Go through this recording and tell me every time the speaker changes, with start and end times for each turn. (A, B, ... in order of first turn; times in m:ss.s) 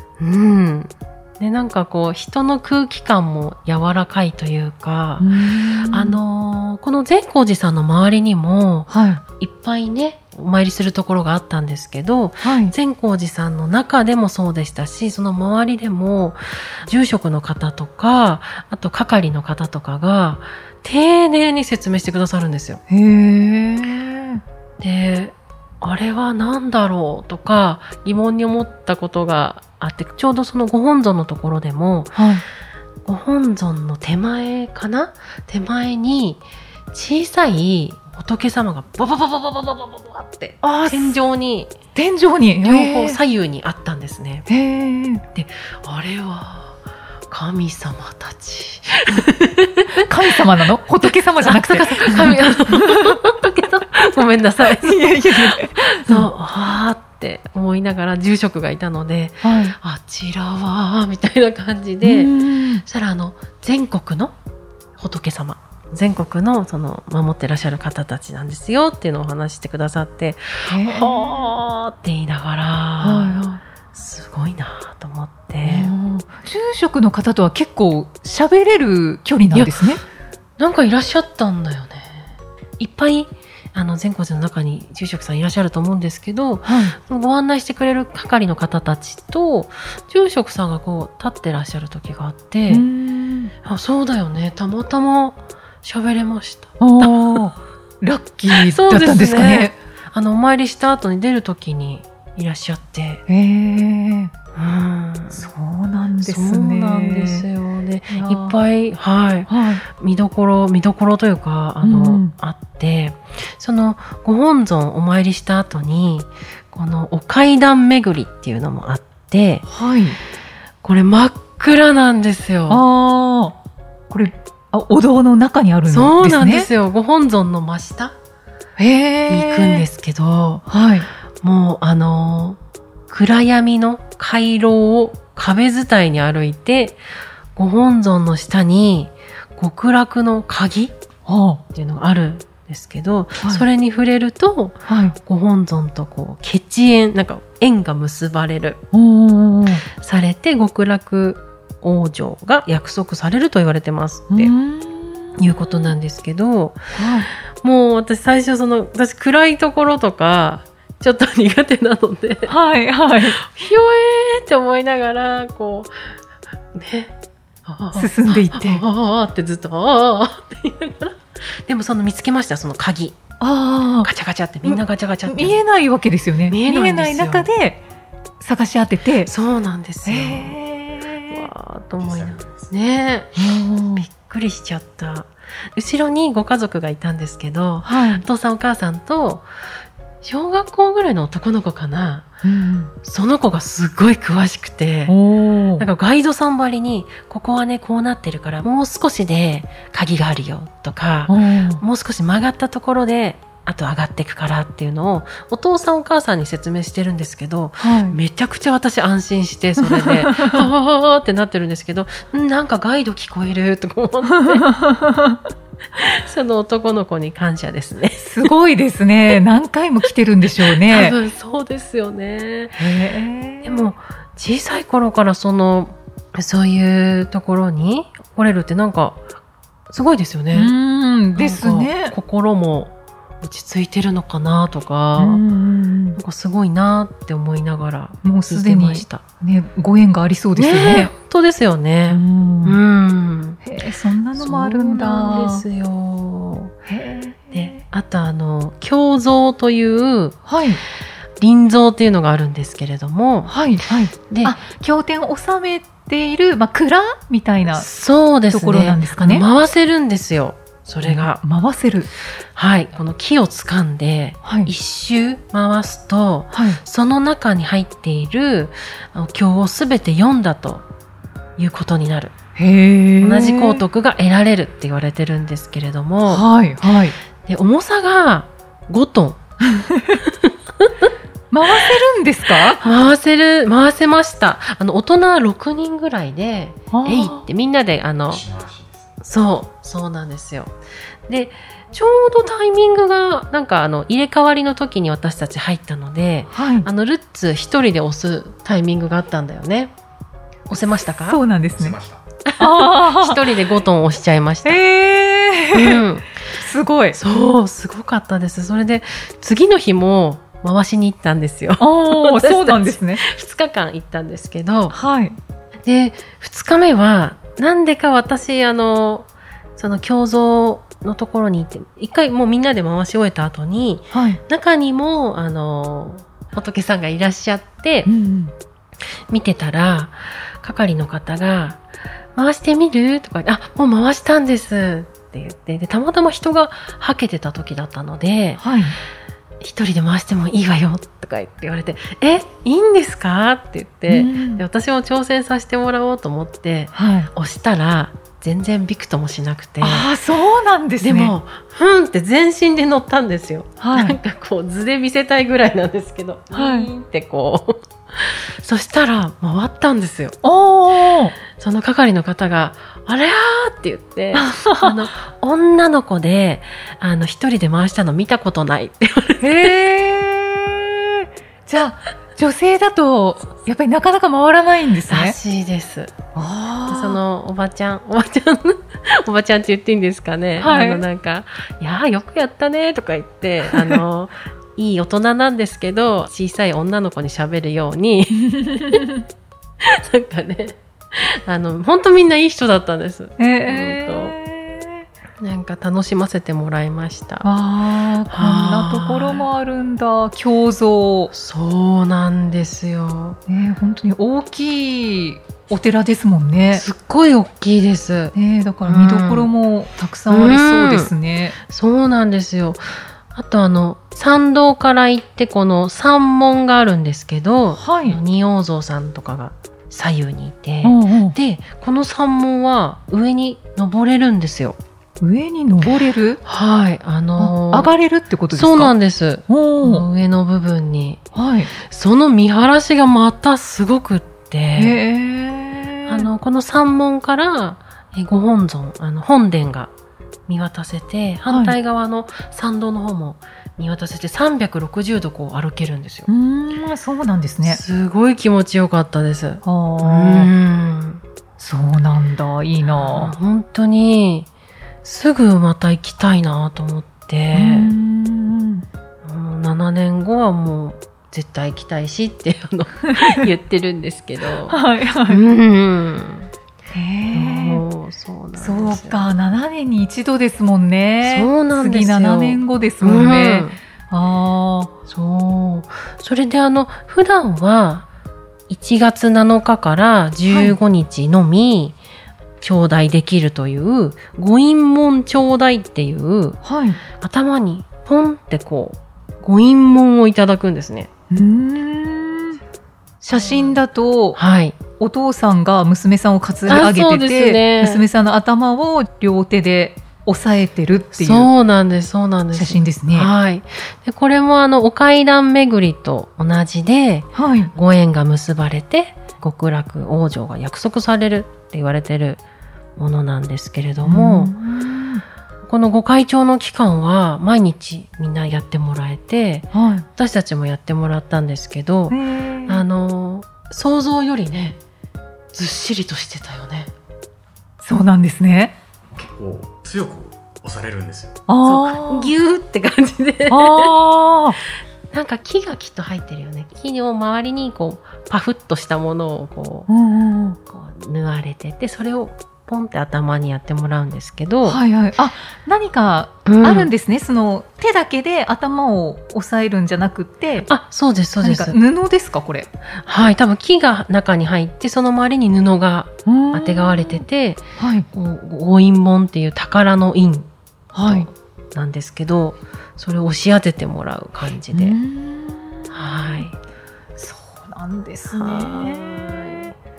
0:00.2-0:22.8 A
0:05.2-0:06.2 B
0:08.9-0:09.2 B
0:12.4-0:12.7 B
0:22.9-0:24.4 B
0:24.8-0:32.2 A
0:32.2-0:32.4 B
0:33.0-0:41.7 A
0:40.6-0:41.2 B
0:41.9-0:43.2 B
0:42.6-0:44.5 A
0:44.5-0:45.2 B
0:45.3-0:46.8 A
0:47.3-0:50.1 A
0:50.0-0:53.2 B
0:51.4-1:04.3 A
0:54.6-0:56.3 B
0:59.4-0:59.7 B
1:02.0-1:02.8 B
1:05.0-1:15.9 A
1:10.6-1:11.5 B
1:13.0-1:13.6 B
1:15.6-1:20.0 B
1:20.6-1:22.3 A
1:22.8-1:32.8 A
1:26.6-1:26.9 B
1:32.7-1:33.5 B
1:33.6-1:37.4 A
1:36.8-1:39.8 B
1:38.5-1:43.2 A
1:43.3-1:44.3 B
1:44.5-1:45.5 A
1:45.3-1:47.4 B
1:46.2-1:59.6 A
1:48.1-1:48.6 B
1:49.5-1:49.8 B
1:51.8-1:52.3 B
1:59.7-2:00.2 B
2:00.8-2:02.8 A
2:02.7-2:03.6 B
2:04.1-2:06.7 B
2:05.9-2:08.1 A
2:08.8-2:09.8 B
2:09.3-2:10.7 A
2:10.7-2:11.1 B
2:11.4-2:17.0 A
2:17.6-2:20.9 A
2:21.2-2:21.6 B
2:21.7-2:28.8 A
2:24.9-2:25.2 B
2:28.9-2:29.8 B
2:29.9-2:34.5 A
2:34.3-2:35.4 B
2:35.4-2:36.9 A
2:37.0-2:37.3 B
2:37.6-2:42.5 A
2:42.5-2:43.4 B
2:43.4-2:45.9 A
2:46.7-2:47.1 A
2:47.6-2:53.2 A
2:47.9-2:48.8 B
2:53.4-2:54.1 B
2:54.0-2:55.6 A
2:54.6-2:57.8 B
2:56.5-2:57.5 A
2:58.4-2:59.3 B
2:59.3-3:00.6 A
3:00.0-3:01.5 B
3:01.2-3:03.4 A
3:02.0-3:02.7 C
3:03.4-3:04.0 B
3:04.0-3:09.5 A
3:07.8-3:08.2 B
3:10.2-3:12.3 A
3:12.4-3:12.9 B
3:13.0-3:15.2 A
3:15.1-3:15.8 B
3:15.8-3:34.7 A
3:21.3-3:21.8 B
3:27.8-3:28.2 B
3:29.8-3:30.7 B
3:34.5-3:35.4 B
3:36.0-3:38.5 A
3:38.2-3:41.2 B
3:40.7-3:42.8 A
3:42.8-3:43.8 B
3:43.6-3:49.2 A
3:49.9-3:50.7 A
3:50.5-3:52.1 B
3:51.4-3:55.4 A
3:55.2-3:56.2 B
3:56.2-3:59.2 A
3:58.2-4:01.1 B
4:00.6-4:03.6 A
4:02.1-4:02.8 B
4:03.6-4:05.6 B
4:04.4-4:06.7 A
4:06.9-4:07.8 B
4:07.5-4:10.4 A
4:10.4-4:10.8 B
4:11.4-4:13.5 A
4:13.5-4:17.9 B
4:14.3-4:14.5 A
4:17.7-4:21.4 A
4:18.5-4:19.4 B
4:21.0-4:22.1 B
4:22.6-4:30.8 A
4:24.4-4:24.7 B
4:26.5-4:26.8 B
4:31.6-4:32.3 A
4:32.6-4:33.8 B
4:33.2-4:36.4 A
4:36.3-4:37.2 B
4:37.4-4:39.4 A
4:39.7-4:40.2 B
4:40.3-4:40.9 A
4:41.5-4:42.8 B
4:42.8-4:48.4 A
4:46.9-4:47.4 B
4:48.3-4:49.1 C
4:49.2-4:50.7 A
4:51.3-4:59.9 A
4:56.5-4:56.9 B
5:00.7-5:01.4 A
5:01.3-5:02.0 B
5:01.7-5:02.2 C
5:02.4-5:04.8 A
5:02.6-5:03.4 B
5:04.6-5:07.2 B
5:05.7-5:06.3 A
5:07.1-5:15.0 A
5:11.8-5:13.2 B
5:14.9-5:15.4 B
5:15.8-5:28.1 A
5:24.1-5:24.4 B
5:28.0-5:28.5 B
5:29.3-5:31.8 A
5:32.4-5:38.6 A
5:38.6-5:38.9 B
5:39.6-5:50.1 A
5:44.1-5:44.6 B
5:46.9-5:47.3 B
5:49.8-5:51.3 B
5:51.0-6:00.4 A
5:53.8-5:54.2 B
5:56.5-5:56.9 B
6:00.4-6:01.3 B
6:01.6-6:09.7 A
6:04.3-6:05.0 B
6:09.4-6:15.4 B
6:15.1-6:16.1 A
6:16.3-6:17.2 B
6:16.9-6:29.0 A
6:20.6-6:21.0 B
6:23.7-6:24.0 B
6:28.5-6:29.2 B
6:29.8-6:34.4 A
6:33.4-6:35.0 B
6:35.4-6:37.5 A
6:37.4-6:41.3 B
6:38.3-6:39.4 A
6:41.3-6:43.4 A
6:43.5-6:46.8 B
6:46.7-6:49.5 A
6:48.3-6:51.6 B
6:50.3-6:51.1 A
6:51.7-7:04.8 A
6:57.8-6:58.2 B
7:00.8-7:01.4 B
7:05.2-7:06.4 B
7:06.4-7:07.9 A
7:07.4-7:08.9 B
7:08.5-7:15.0 A
7:09.5-7:10.0 B
7:11.3-7:11.7 B
7:14.8-7:16.3 B
7:16.1-7:19.9 A
7:20.5-7:26.3 A
7:21.5-7:21.7 B
7:26.3-7:27.8 B
7:27.6-7:31.2 A
7:29.6-7:30.5 B
7:31.6-7:33.3 B
7:32.8-7:34.5 A
7:35.0-7:37.9 A
7:37.5-7:38.8 B
7:39.2-7:46.5 A
7:44.7-7:45.4 B
7:46.9-7:47.8 B
7:47.3-7:49.3 A
7:48.6-7:54.9 B
7:51.2-7:53.8 A
7:55.1-7:58.1 A
7:58.7-8:02.0 A
8:00.5-8:00.8 B
8:02.6-8:06.6 A
8:06.6-8:07.0 B
8:07.2-8:11.1 A
8:11.3-8:12.6 B
8:13.2-8:14.4 B
8:14.4-8:14.8 A
8:15.0-8:21.5 B
8:16.7-8:18.0 A
8:21.1-8:32.4 A
8:22.5-8:23.3 B
8:27.3-8:27.7 B
8:33.0-8:34.5 A
8:34.0-8:35.2 B
8:35.7-8:44.8 A
8:39.7-8:40.1 B
8:42.1-8:42.8 B
8:45.5-8:46.9 A
8:47.8-8:48.7 B
8:49.1-8:51.4 C
8:51.5-8:52.3 B
8:51.6-8:53.9 A
8:53.5-8:54.6 B
8:55.1-8:59.9 A
8:59.9-9:00.6 B
9:00.7-9:04.8 A
9:04.6-9:10.7 B
9:06.4-9:06.9 A
9:10.6-9:11.8 A
9:11.4-9:12.7 B
9:13.0-9:20.5 A
9:16.2-9:17.2 B
9:17.8-9:18.1 B
9:20.9-9:21.3 B
9:21.0-9:25.0 A
9:24.7-9:25.9 B
9:25.9-9:26.5 A
9:27.2-9:29.7 B
9:28.3-9:29.7 A